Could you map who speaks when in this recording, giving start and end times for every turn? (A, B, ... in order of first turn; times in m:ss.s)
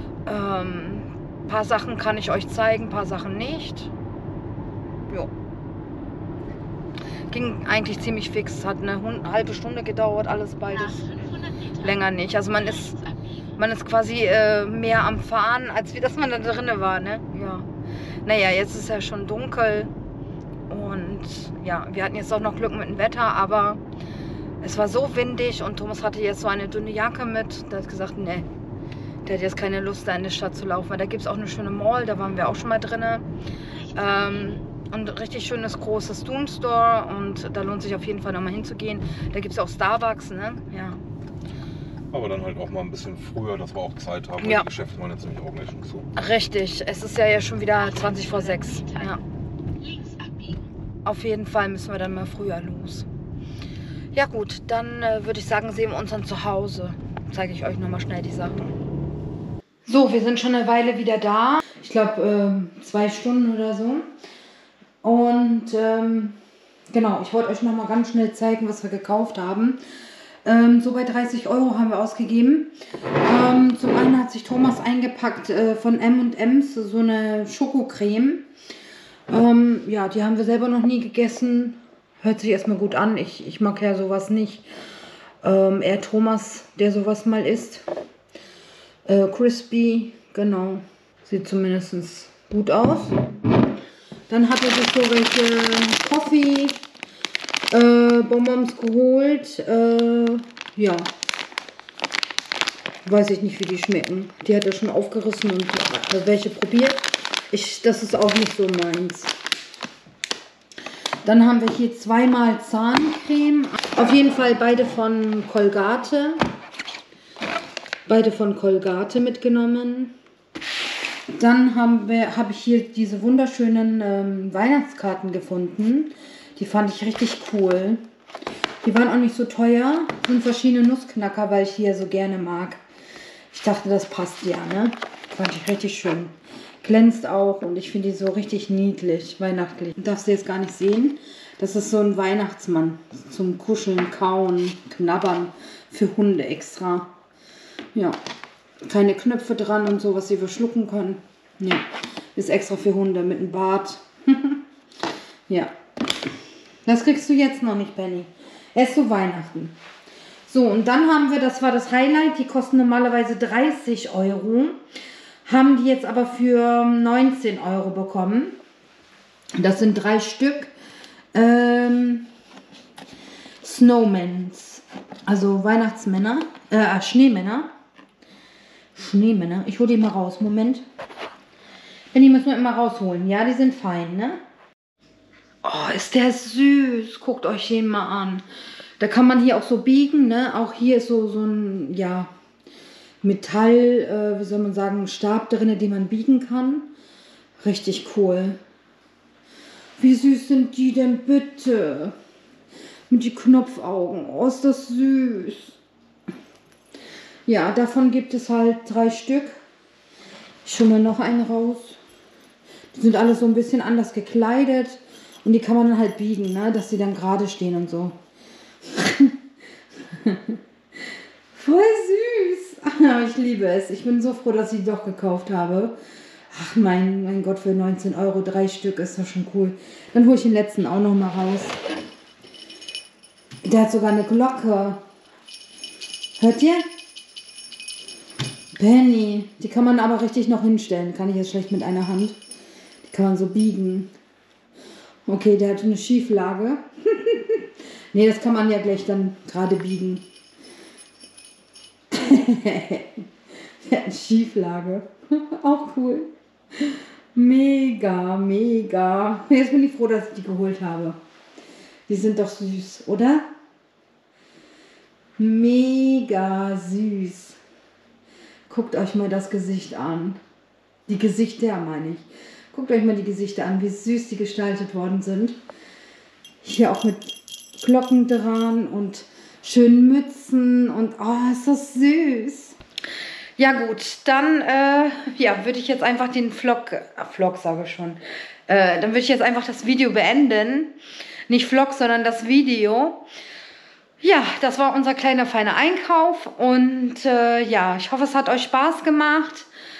0:00.3-0:03.9 A
0:07.3-0:11.1 A
0:10.9-0:11.8 B
0:11.8-0:13.0 A
0:12.6-0:13.3 B
0:13.6-0:17.7 A
0:18.2-0:19.9 A
0:20.7-0:23.8 A
0:24.6-0:28.5 A
0:29.2-0:33.2 A
0:33.8-0:34.6 B
0:33.9-0:41.0 A
0:42.1-0:46.1 C
0:44.4-0:44.7 A
0:46.2-0:49.2 A
0:47.8-0:49.2 B
0:49.8-0:50.7 B
0:51.0-0:53.1 A
0:54.1-0:58.8 A
0:59.9-1:04.1 A
1:05.0-1:06.4 A
1:06.9-1:09.8 A
1:10.4-1:18.5 A
1:19.3-1:24.7 A
1:25.4-1:27.8 A
1:29.1-1:33.2 A
1:34.3-1:36.8 A
1:37.7-1:41.1 A
1:43.0-1:49.4 A
1:51.2-1:56.4 A
1:58.1-2:00.2 A
2:01.3-2:08.0 A
2:08.8-2:12.8 A
2:13.5-2:27.1 A
2:28.8-2:34.6 A
2:35.5-2:35.7 A
2:36.8-2:39.8 A
2:40.5-2:44.8 A
2:45.4-2:48.6 A
2:49.6-2:50.7 A
2:51.3-2:52.3 A
2:53.6-2:57.7 A
2:59.0-3:00.8 A
3:02.1-3:04.4 A
3:05.6-3:08.4 A
3:09.0-3:12.3 A
3:13.2-3:16.9 A
3:17.6-3:18.6 A
3:20.0-3:22.2 A
3:23.1-3:25.8 A
3:27.5-3:29.6 A
3:30.6-3:32.0 A
3:32.9-3:38.2 A
3:38.9-3:39.4 A
3:40.1-3:40.6 A
3:41.5-3:46.0 A
3:46.5-3:51.8 A
3:53.6-3:55.0 A
3:56.4-3:56.9 A
3:58.8-4:02.4 A
4:03.0-4:04.1 A
4:05.3-4:10.2 A
4:12.1-4:13.2 A
4:13.8-4:21.2 A
4:22.1-4:23.5 A
4:25.4-4:27.6 A
4:28.7-4:30.4 A
4:31.1-4:35.6 A
4:36.6-4:42.8 A
4:43.6-4:51.0 A
4:51.5-4:53.2 A
4:54.2-4:59.7 A